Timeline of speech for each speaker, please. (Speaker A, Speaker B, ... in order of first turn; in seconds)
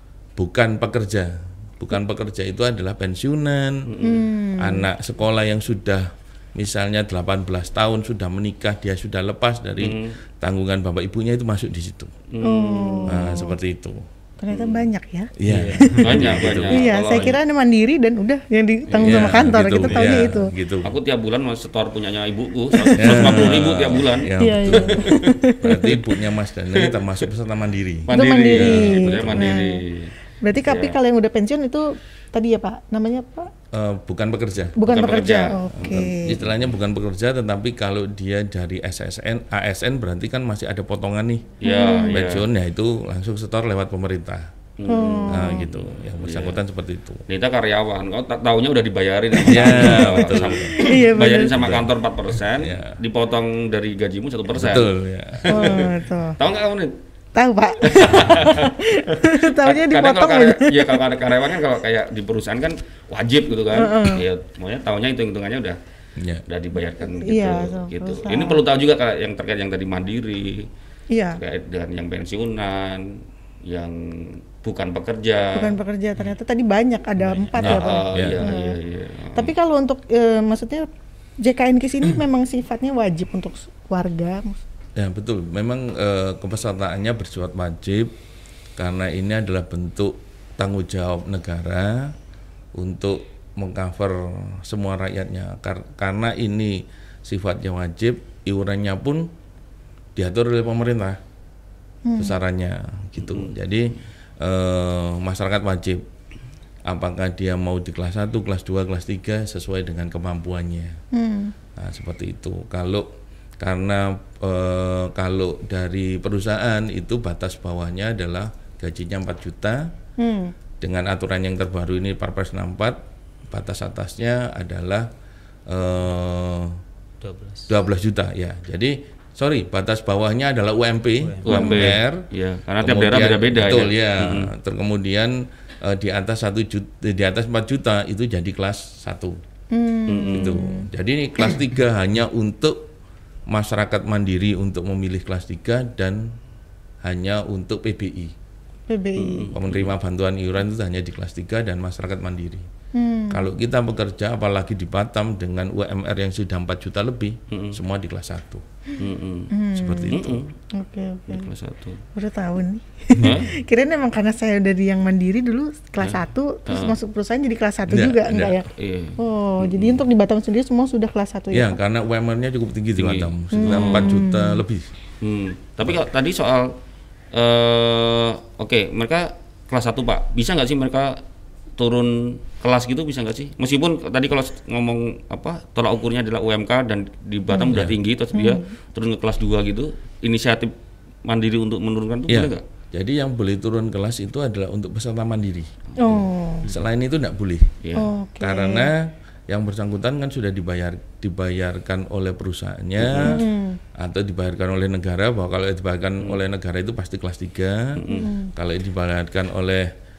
Speaker A: 0.4-3.9, 4.6-12.1, 13.1-14.0, 15.4-16.8, 19.0-20.9, 22.9-29.6, 33.7-34.8, 35.7-41.5, 42.1-44.5, 45.3-47.2, 49.5-50.8, 51.5-51.9, 52.6-53.0, 54.5-55.9, 66.2-66.4, 77.6-78.4, 85.0-88.1, 88.8-92.1, 92.8-99.3, 100.2-101.2, 102.2-106.0, 106.9-111.0, 111.8-113.0, 113.6-119.9, 120.8-125.1, 125.7-126.8, 127.7-132.2, 132.8-139.4, 140.3-142.8, 143.5-146.2, 147.0-148.3, 149.5-152.7, 153.3-158.6, 159.8-160.4, 167.9-168.6, 171.5-174.9, 187.7-188.0, 192.3-195.7, 196.6-197.7, 198.4-199.0, 199.5-203.4, 204.0-208.0, 208.5-209.9
Speaker B: 3.9-4.2, 9.8-10.2, 12.3-13.2, 14.5-14.8, 16.0-17.4, 20.8-25.2, 28.1-31.0, 34.9-36.7, 41.6-42.4, 44.8-46.6, 47.3-54.9, 55.4-56.9, 57.9-58.7, 59.5-65.8, 66.5-70.6, 71.3-73.0, 73.7-75.8, 77.6-79.5, 103.2-103.5, 131.4-134.5, 140.1-140.6, 149.2-149.9, 157.5-157.8, 159.0-159.5, 160.1-160.5, 161.3-162.0, 163.2-163.5, 166.0-166.9, 168.8-170.1, 173.0-174.2, 175.2-176.7, 177.3-181.2, 181.8-190.7, 191.2-192.6, 203.0-203.4, 207.9-208.3
Speaker C: 4.0-4.9, 12.4-13.6, 14.4-20.5, 22.8-23.5, 24.4-26.0, 28.1-29.7, 30.4-33.5, 34.8-36.4, 41.6-42.2, 44.9-45.7, 49.4-51.7, 55.5-56.4, 57.3-61.0, 63.7-64.2, 67.0-68.6, 71.1-71.4, 75.5-78.8, 79.3-80.8, 81.4-84.6, 102.0-102.4, 111.1-111.5, 120.2-120.5, 131.5-131.9, 139.7-140.9, 148.9-149.5, 152.9-153.5, 159.5-160.2, 160.8-161.5, 162.1-171.8, 173.5-174.6, 187.5-187.7, 188.3-188.6, 196.0-196.7, 197.9-198.9, 203.2-203.8, 208.1-208.5
Speaker D: 15.5-16.2, 18.9-20.2, 77.2-77.6, 127.2-127.7, 131.2-131.6